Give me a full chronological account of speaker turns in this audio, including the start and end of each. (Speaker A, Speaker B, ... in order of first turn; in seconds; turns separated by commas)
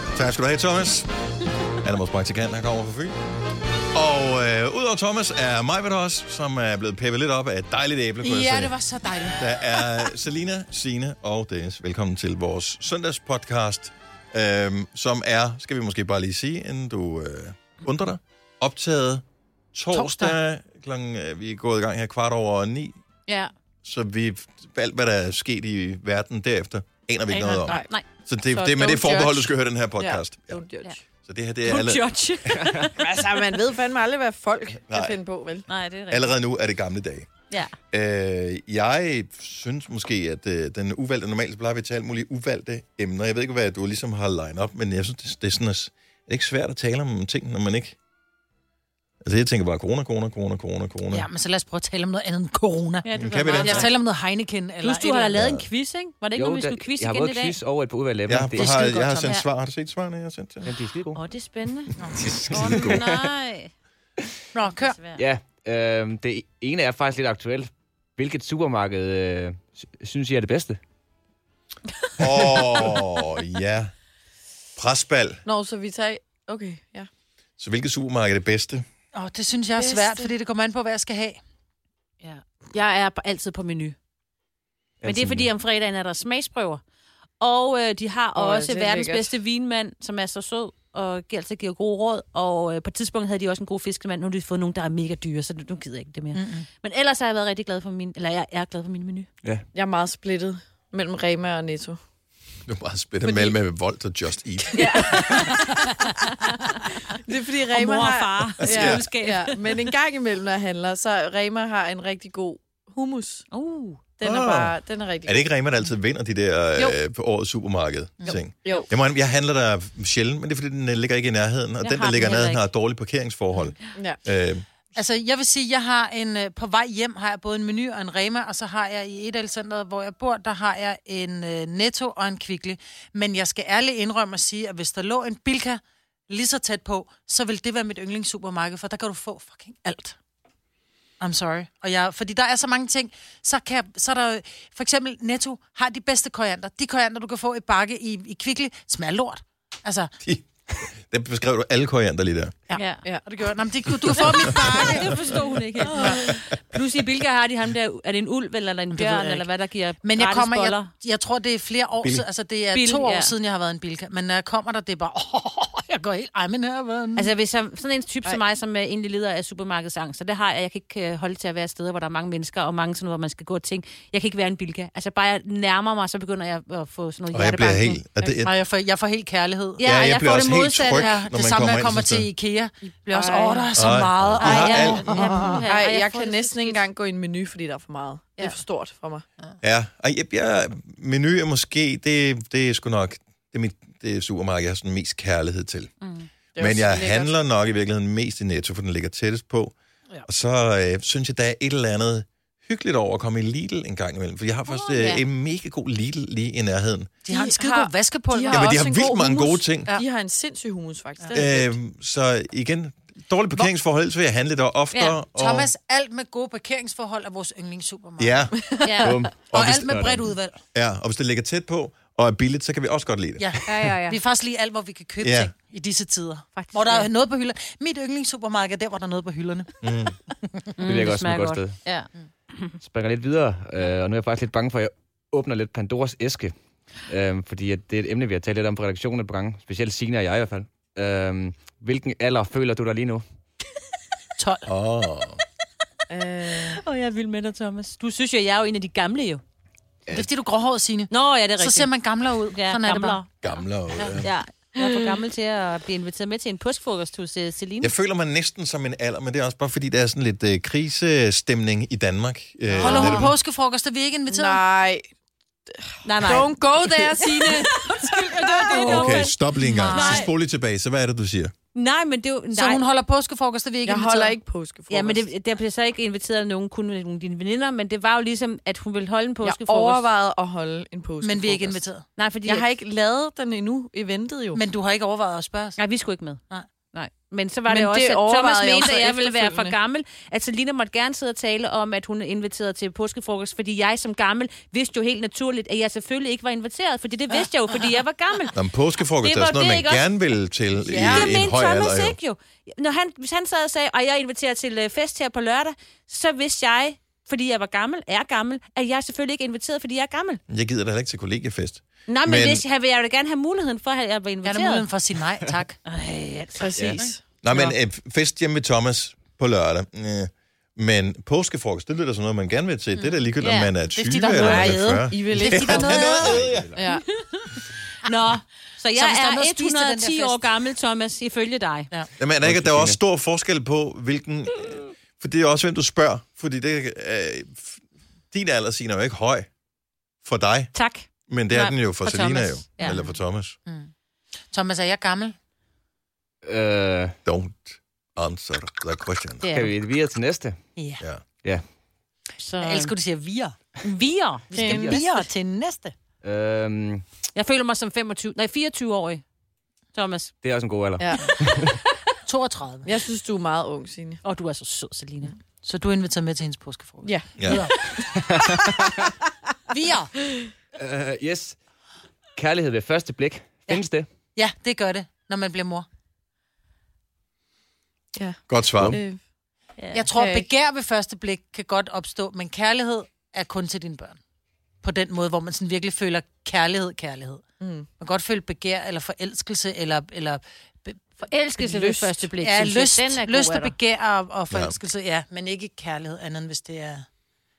Speaker A: 0.1-1.1, Speaker A: 1.7-3.1, Speaker A: 3.9-8.8, Speaker B: 8.2-10.1, Speaker A: 9.3-23.0, Speaker B: 19.9-20.4, Speaker C: 23.3-23.5, Speaker A: 23.8-30.6, Speaker B: 27.3-27.8, Speaker C: 27.7-28.0, Speaker D: 28.5-31.0, Speaker A: 31.2-32.1, Speaker C: 31.6-33.3, Speaker E: 32.6-32.8, Speaker D: 32.9-35.7, Speaker A: 34.9-35.2, Speaker C: 35.7-36.3, Speaker A: 36.1-37.3, Speaker C: 37.5-37.8, Speaker A: 37.9-48.0, Speaker A: 49.2-51.3, Speaker B: 51.1-55.4, Speaker C: 53.0-54.0, Speaker A: 53.1-53.9, Speaker C: 54.8-57.6, Speaker A: 55.4-55.7, Speaker E: 56.4-58.7, Speaker A: 58.3-60.7, Speaker C: 58.6-59.4, Speaker B: 58.7-59.4, Speaker E: 60.6-61.2, Speaker C: 61.1-63.7, Speaker B: 62.0-62.3, Speaker A: 62.1-63.0, Speaker E: 62.5-63.2, Speaker B: 64.5-65.0, Speaker C: 64.8-65.2, Speaker E: 65.1-70.8, Speaker A: 72.2-73.9, Speaker A: 74.8-75.4, Speaker D: 75.4-77.1, Speaker A: 77.6-78.8, Speaker B: 79.1-81.4, Speaker D: 79.8-80.3, Speaker C: 82.2-84.0, Speaker E: 85.0-85.5, Speaker C: 85.0-86.8, Speaker C: 87.4-99.3, Speaker D: 88.3-89.3, Speaker B: 96.3-96.7, Speaker D: 99.7-102.0, Speaker A: 102.7-105.5, Speaker D: 103.2-103.5, Speaker C: 104.7-107.1, Speaker D: 104.8-105.8, Speaker D: 107.1-113.4, Speaker C: 107.7-109.9, Speaker A: 108.6-109.0, Speaker C: 113.5-114.0, Speaker D: 114.2-115.5, Speaker A: 114.2-124.7, Speaker C: 118.2-118.9, Speaker C: 121.8-122.6, Speaker D: 123.9-124.2, Speaker B: 124.9-140.2, Speaker B: 141.2-150.1, Speaker A: 150.2-152.6, Speaker B: 152.7-155.4, Speaker C: 152.7-153.0, Speaker A: 154.0-154.9, Speaker C: 154.6-160.9, Speaker B: 158.9-159.5, Speaker B: 160.0-167.3, Speaker C: 162.7-163.3, Speaker C: 167.2-178.0, Speaker A: 177.3-178.5, Speaker B: 178.3-180.0, Speaker C: 179.8-181.1, Speaker A: 179.8-182.3, Speaker B: 180.7-185.6, Speaker D: 183.1-183.7, Speaker A: 183.7-185.1, Speaker C: 184.4-186.8, Speaker D: 184.7-189.2, Speaker A: 189.6-195.9, Speaker C: 196.0-196.3, Speaker D: 196.6-197.3, Speaker A: 196.6-199.7, Speaker A: 200.2-207.1, Speaker C: 204.7-205.2, Speaker B: 207.2-208.8, Speaker D: 207.3-211.7, Speaker A: 208.5-210.0, Speaker A: 211.3-215.7, Speaker C: 214.9-215.2, Speaker B: 215.3-218.5, Speaker A: 218.2-218.6, Speaker D: 218.5-219.1, Speaker C: 218.8-219.2, Speaker E: 219.0-220.2, Speaker B: 219.5-220.6, Speaker A: 219.5-220.2, Speaker A: 220.7-223.9, Speaker B: 223.4-229.8, Speaker C: 223.6-224.2, Speaker A: 225.2-225.5, Speaker C: 226.6-227.1, Speaker A: 229.8-230.2, Speaker C: 230.8-232.7, Speaker E: 230.8-231.8, Speaker E: 232.8-243.2, Speaker B: 244.4-244.7, Speaker A: 244.7-245.4, Speaker D: 246.1-246.8, Speaker C: 246.5-249.4, Speaker B: 250.1-253.2, Speaker C: 251.1-251.9, Speaker C: 252.5-253.3, Speaker A: 253.4-254.3, Speaker B: 254.0-254.2, Speaker C: 254.1-257.9, Speaker D: 254.8-255.1, Speaker A: 257.8-263.3, Speaker B: 262.8-264.6, Speaker C: 262.8-263.2, Speaker D: 264.3-265.1, Speaker D: 265.7-269.3, Speaker C: 266.0-270.3, Speaker A: 268.8-271.5, Speaker B: 269.6-270.3, Speaker C: 271.7-272.8, Speaker B: 272.5-274.4, Speaker D: 273.8-275.2, Speaker C: 274.9-280.1, Speaker D: 279.4-281.8, Speaker B: 281.2-282.0, Speaker C: 282.2-282.7, Speaker D: 282.4-284.6, Speaker B: 284.5-285.8, Speaker C: 285.8-286.4, Speaker C: 286.9-298.6, Speaker D: 287.7-289.7, Speaker A: 298.5-302.2, Speaker C: 299.2-300.1, Speaker C: 300.8-310.4, Speaker B: 300.9-301.3, Speaker A: 310.5-312.6, Speaker C: 312.1-314.9, Speaker B: 314.4-315.8, Speaker C: 315.9-317.6, Speaker D: 316.6-317.2, Speaker A: 317.4-326.7, Speaker C: 323.4-323.7, Speaker B: 323.9-326.4, Speaker C: 324.3-324.8, Speaker D: 324.4-326.1, Speaker E: 326.1-326.8, Speaker D: 326.7-327.1, Speaker C: 326.9-331.9, Speaker B: 328.9-330.4, Speaker A: 332.2-339.5, Speaker E: 332.4-333.0, Speaker A: 340.2-340.7, Speaker C: 340.7-343.0, Speaker A: 341.3-343.6, Speaker B: 343.6-343.9, Speaker B: 344.5-345.4, Speaker E: 346.4-347.1, Speaker A: 347.2-349.4, Speaker C: 349.4-349.7, Speaker E: 349.5-350.6, Speaker B: 350.8-351.0, Speaker C: 352.4-352.9, Speaker B: 352.6-353.6, Speaker C: 353.8-355.1, Speaker D: 354.5-355.0, Speaker E: 354.5-355.0, Speaker B: 354.5-355.9, Speaker E: 356.2-357.0, Speaker C: 357.3-359.2, Speaker C: 359.9-360.3, Speaker E: 360.4-361.8, Speaker D: 361.0-361.4, Speaker C: 361.2-361.8, Speaker B: 362.2-363.0, Speaker D: 362.8-364.2, Speaker C: 364.2-365.3, Speaker B: 365.6-368.3, Speaker D: 367.0-368.0, Speaker A: 367.4-367.6, Speaker E: 368.0-369.1, Speaker B: 369.7-370.1, Speaker E: 370.8-371.6, Speaker E: 372.4-374.1, Speaker B: 374.3-375.9, Speaker D: 378.1-379.2, Speaker A: 378.5-379.0, Speaker C: 379.8-380.0, Speaker B: 379.9-384.2, Speaker D: 380.1-380.5, Speaker B: 384.8-387.4, Speaker D: 387.6-387.9, Speaker B: 388.0-391.1, Speaker C: 391.2-393.7, Speaker D: 391.6-392.2, Speaker B: 392.3-397.1, Speaker A: 394.5-394.8